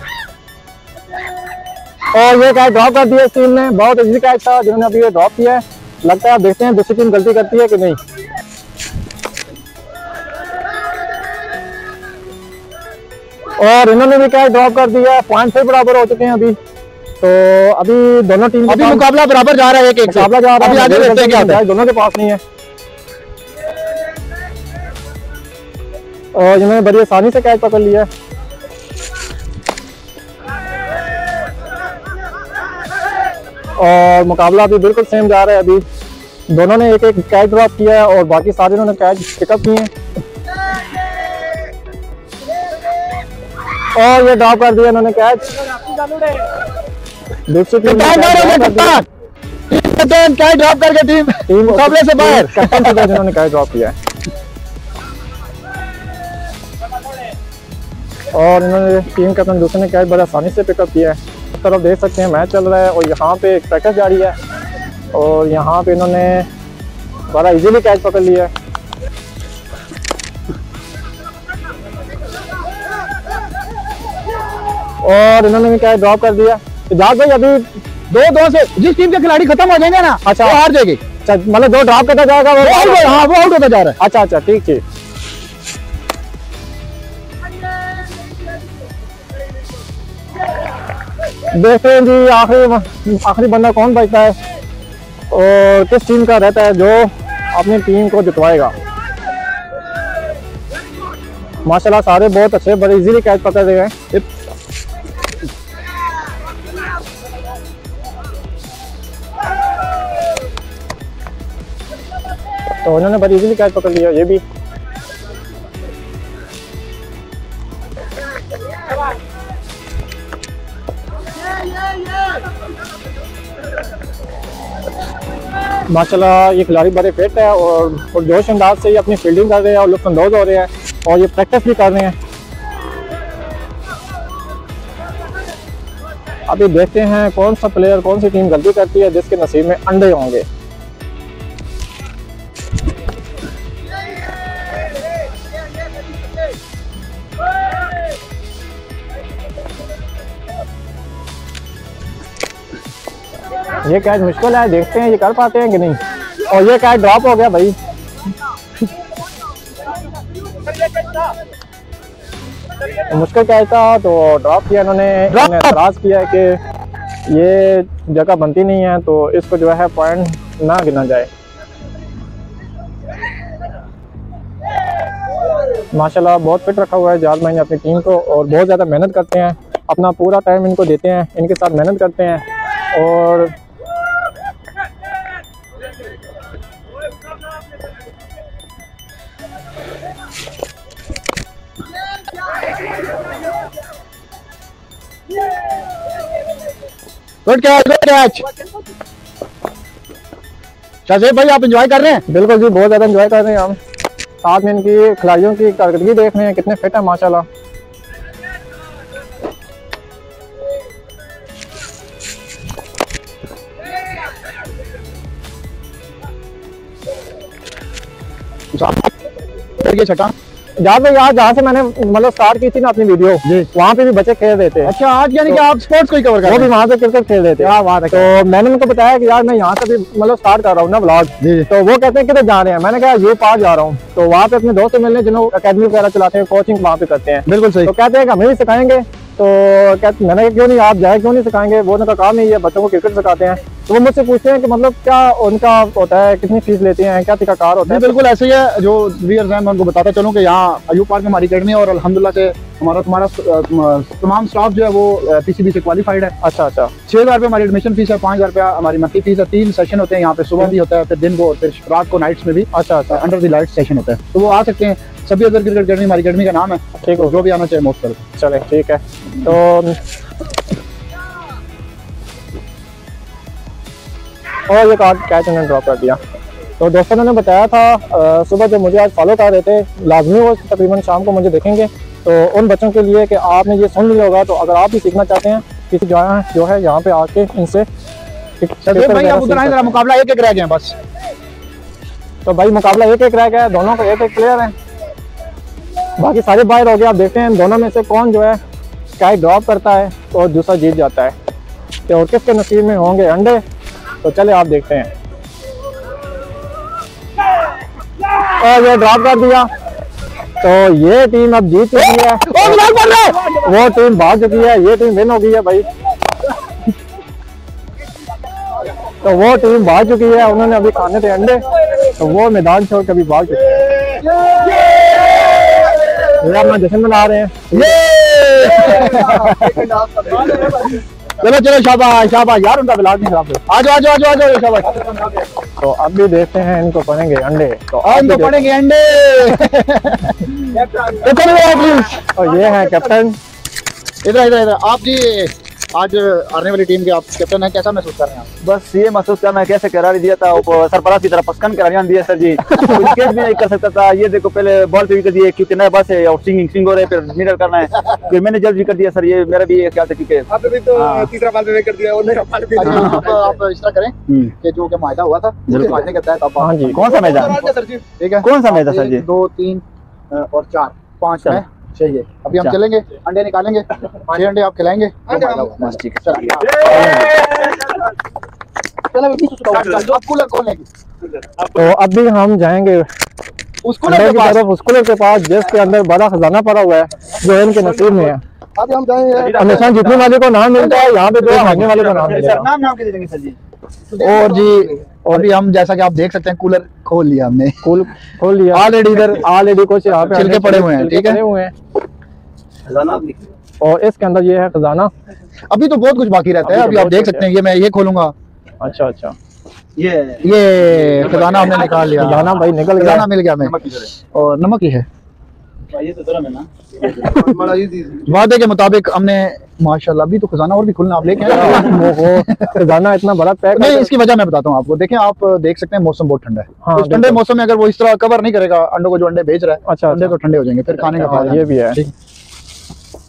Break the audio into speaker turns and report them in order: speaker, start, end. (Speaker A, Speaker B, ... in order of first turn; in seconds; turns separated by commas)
Speaker A: 2.1-8.0, Speaker A: 13.6-16.6, Speaker A: 17.2-19.0, Speaker B: 18.6-21.6, Speaker A: 20.1-22.4, Speaker A: 26.3-28.1, Speaker A: 33.8-35.8, Speaker A: 36.5-39.9, Speaker A: 43.9-46.3, Speaker A: 47.5-49.0, Speaker B: 47.8-49.0, Speaker B: 49.7-53.0, Speaker A: 51.5-53.9, Speaker A: 58.3-64.3, Speaker A: 65.1-66.5, Speaker A: 67.3-68.5, Speaker A: 75.0-77.7, Speaker B: 78.1-81.0, Speaker A: 80.2-80.6, Speaker A: 81.2-83.2, Speaker B: 82.6-84.0, Speaker A: 84.0-84.8, Speaker A: 91.5-94.4, Speaker A: 95.3-98.7, Speaker A: 101.6-103.9, Speaker A: 112.8-114.4, Speaker A: 125.9-132.1, Speaker A: 136.5-140.4, Speaker A: 153.8-157.7, Speaker A: 163.1-166.6, Speaker B: 165.3-165.8, Speaker A: 167.3-171.3, Speaker A: 175.9-183.5, Speaker B: 197.4-198.5, Speaker B: 201.1-202.2, Speaker A: 202.3-203.8, Speaker A: 204.4-207.4, Speaker B: 218.7-219.1, Speaker B: 219.8-220.3, Speaker A: 220.8-224.9, Speaker B: 224.8-226.7, Speaker A: 226.4-248.2, Speaker B: 227.6-228.3, Speaker B: 231.4-231.7, Speaker B: 237.5-237.9, Speaker B: 247.8-256.3, Speaker A: 256.4-256.9, Speaker B: 257.1-268.2, Speaker A: 262.7-263.2, Speaker A: 267.0-267.4, Speaker A: 268.4-270.0, Speaker A: 274.7-276.2, Speaker A: 276.8-287.9, Speaker A: 288.6-289.9, Speaker B: 288.8-290.9, Speaker A: 292.4-294.7, Speaker A: 296.2-298.6, Speaker A: 299.2-301.3, Speaker A: 302.1-303.6, Speaker A: 304.2-305.1, Speaker A: 308.5-309.7, Speaker A: 310.6-315.9, Speaker B: 312.5-313.4, Speaker A: 319.2-324.1, Speaker A: 326.2-327.6, Speaker B: 327.7-329.9, Speaker C: 329.3-330.4, Speaker D: 330.1-330.9, Speaker B: 331.4-335.2, Speaker A: 335.8-338.5, Speaker B: 338.0-342.3, Speaker A: 342.3-343.4, Speaker B: 344.2-348.5, Speaker D: 348.6-361.3, Speaker B: 352.8-353.2, Speaker C: 360.6-362.9, Speaker B: 362.8-377.3, Speaker D: 362.8-363.3, Speaker D: 365.7-366.0, Speaker A: 366.6-367.0, Speaker D: 366.9-367.6, Speaker C: 367.3-368.0, Speaker D: 368.4-369.2, Speaker C: 375.3-375.7, Speaker D: 375.8-377.9, Speaker A: 376.9-377.3, Speaker C: 379.1-380.1, Speaker B: 379.7-380.9, Speaker A: 381.7-383.1, Speaker B: 383.8-384.6, Speaker A: 384.1-388.4, Speaker C: 388.8-389.5, Speaker D: 389.3-390.3, Speaker A: 389.5-392.6, Speaker D: 391.2-393.6, Speaker B: 394.1-397.7, Speaker A: 397.8-401.7, Speaker B: 398.7-399.4, Speaker B: 400.3-401.4, Speaker D: 402.9-403.5, Speaker A: 403.8-405.1, Speaker B: 405.7-408.3, Speaker A: 406.6-407.4, Speaker A: 408.8-409.3, Speaker D: 410.0-410.5, Speaker B: 410.4-413.7, Speaker D: 411.0-412.3, Speaker A: 412.1-413.3, Speaker D: 413.6-414.1, Speaker B: 414.3-415.1, Speaker D: 415.9-417.8, Speaker B: 417.5-422.8, Speaker C: 417.6-418.2, Speaker A: 421.4-424.1, Speaker B: 423.7-432.1, Speaker A: 426.8-427.4, Speaker A: 429.9-430.4, Speaker A: 431.2-432.0